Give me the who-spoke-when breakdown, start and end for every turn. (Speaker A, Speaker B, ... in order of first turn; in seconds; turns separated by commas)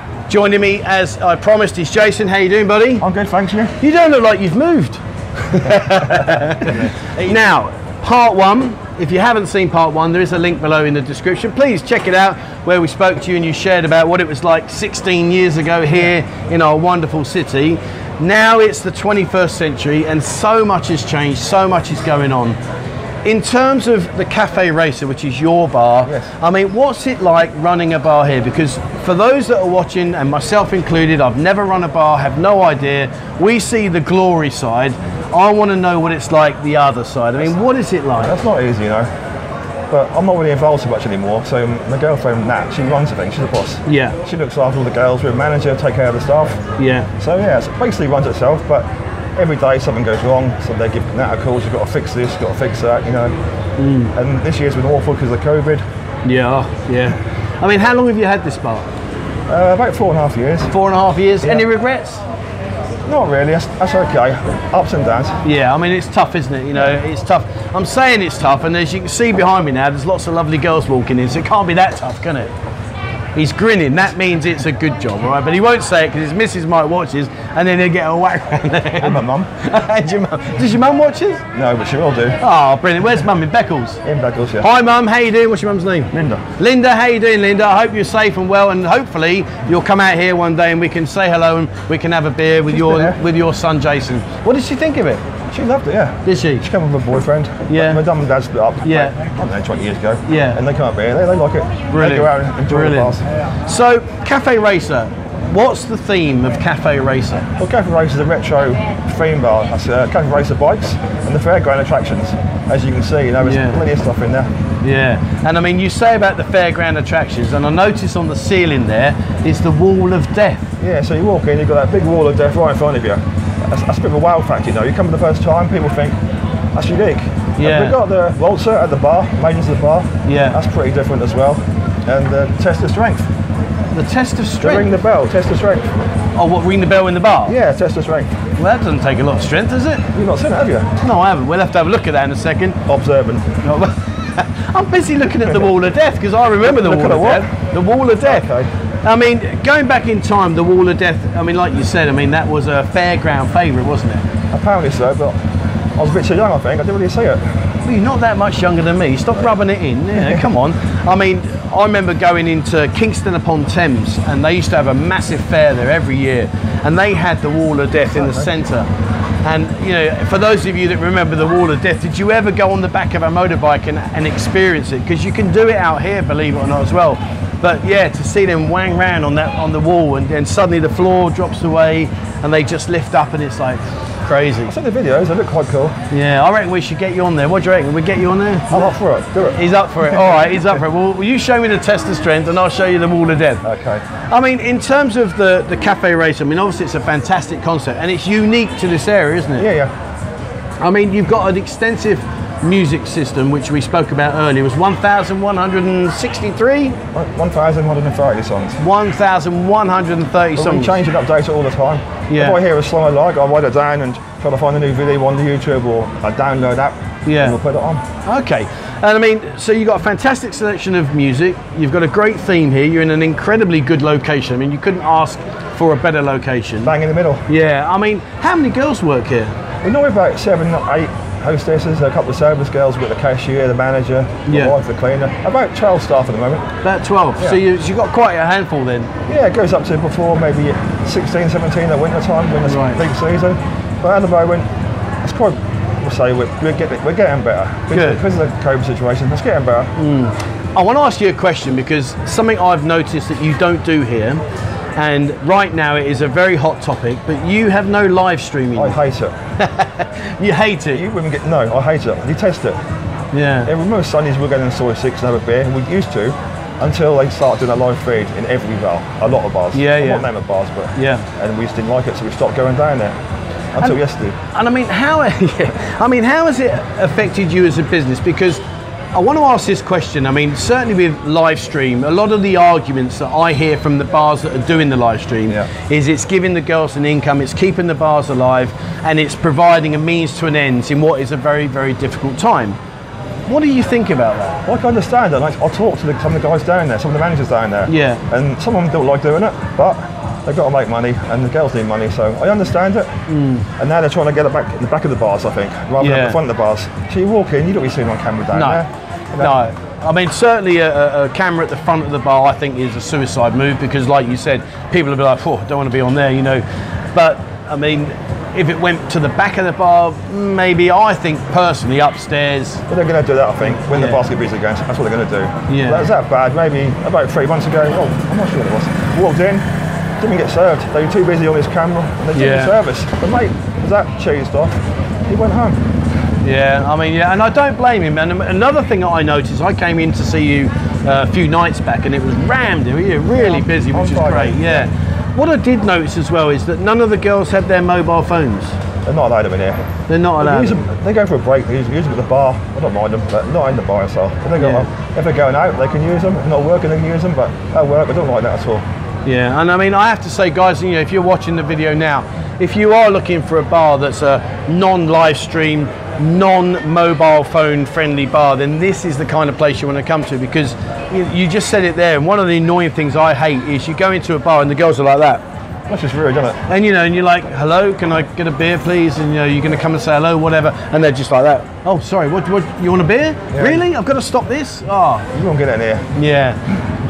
Speaker A: 0.3-3.0, Speaker B: 3.0-3.8, Speaker A: 3.8-22.6, Speaker B: 6.6-6.9, Speaker A: 23.2-38.4, Speaker B: 38.2-39.1, Speaker B: 39.9-46.6, Speaker A: 43.9-44.2, Speaker A: 46.8-47.1, Speaker B: 47.2-48.9, Speaker B: 49.4-53.3, Speaker A: 53.8-54.1, Speaker B: 54.1-55.8, Speaker A: 56.2-58.9, Speaker B: 59.5-60.7, Speaker A: 60.7-62.2, Speaker B: 63.1-65.4, Speaker A: 65.4-72.5, Speaker A: 73.3-81.4, Speaker B: 79.0-79.5, Speaker B: 81.5-82.4, Speaker A: 82.4-84.0, Speaker B: 84.0-84.7, Speaker A: 84.6-95.2, Speaker B: 86.1-86.4, Speaker B: 92.7-93.2, Speaker B: 95.5-103.2, Speaker A: 96.2-96.6, Speaker A: 97.7-98.0, Speaker A: 98.8-99.2, Speaker A: 100.3-100.6, Speaker A: 101.9-107.5, Speaker B: 107.6-114.5, Speaker A: 113.4-113.8, Speaker A: 114.8-120.6, Speaker B: 120.8-126.2, Speaker B: 126.8-133.3, Speaker A: 127.6-128.0, Speaker A: 130.2-130.6, Speaker A: 133.9-134.9, Speaker B: 134.6-136.0, Speaker A: 136.3-137.6, Speaker B: 137.5-138.3, Speaker A: 138.6-140.1, Speaker B: 140.1-140.9, Speaker A: 141.0-142.8, Speaker B: 142.9-143.5, Speaker A: 143.6-148.5, Speaker B: 145.4-145.7, Speaker B: 146.6-147.5, Speaker B: 148.2-148.7, Speaker A: 149.0-154.2, Speaker B: 154.5-155.4, Speaker B: 156.0-157.4, Speaker A: 157.8-168.9, Speaker B: 160.2-160.4, Speaker B: 168.2-168.5, Speaker A: 169.4-184.7, Speaker B: 184.7-186.0, Speaker A: 186.1-188.9, Speaker B: 188.7-190.8, Speaker A: 189.6-193.6, Speaker B: 193.6-194.0, Speaker A: 194.3-199.7, Speaker B: 199.6-199.9, Speaker A: 200.8-207.0, Speaker B: 207.1-208.8, Speaker A: 208.8-211.0, Speaker B: 210.6-218.0, Speaker A: 212.3-212.6, Speaker A: 217.3-217.6, Speaker A: 218.2-226.9, Speaker B: 226.8-227.4, Speaker A: 227.5-229.5, Speaker B: 229.8-236.7, Speaker A: 234.5-234.8, Speaker A: 236.8-239.1, Speaker B: 239.3-244.7, Speaker A: 242.7-243.0, Speaker B: 245.2-249.9, Speaker A: 247.9-248.2, Speaker A: 250.0-254.4, Speaker A: 255.0-259.0, Speaker B: 258.8-259.4, Speaker A: 259.6-261.1, Speaker B: 260.9-262.8, Speaker A: 263.3-263.7, Speaker B: 263.6-273.1, Speaker A: 269.7-270.3, Speaker A: 270.9-271.2, Speaker B: 273.8-274.4, Speaker A: 274.5-278.6, Speaker A: 279.1-292.8, Speaker A: 293.5-294.6, Speaker B: 294.7-303.1, Speaker A: 297.9-298.2, Speaker A: 303.3-303.7, Speaker B: 303.8-309.6, Speaker A: 306.0-306.4, Speaker A: 308.5-308.8, Speaker A: 309.4-316.6, Speaker A: 317.1-322.8, Speaker B: 322.9-329.6, Speaker A: 323.8-324.2, Speaker A: 325.7-326.1, Speaker B: 330.2-335.8, Speaker A: 332.4-332.8, Speaker A: 336.4-348.8, Speaker B: 343.4-344.9, Speaker B: 349.1-349.8, Speaker A: 350.1-350.9, Speaker B: 350.4-358.8, Speaker A: 354.6-354.9, Speaker A: 359.2-375.4, Speaker B: 375.9-376.6, Speaker A: 376.7-385.3, Speaker B: 383.5-383.8, Speaker B: 385.3-386.1, Speaker A: 386.1-386.6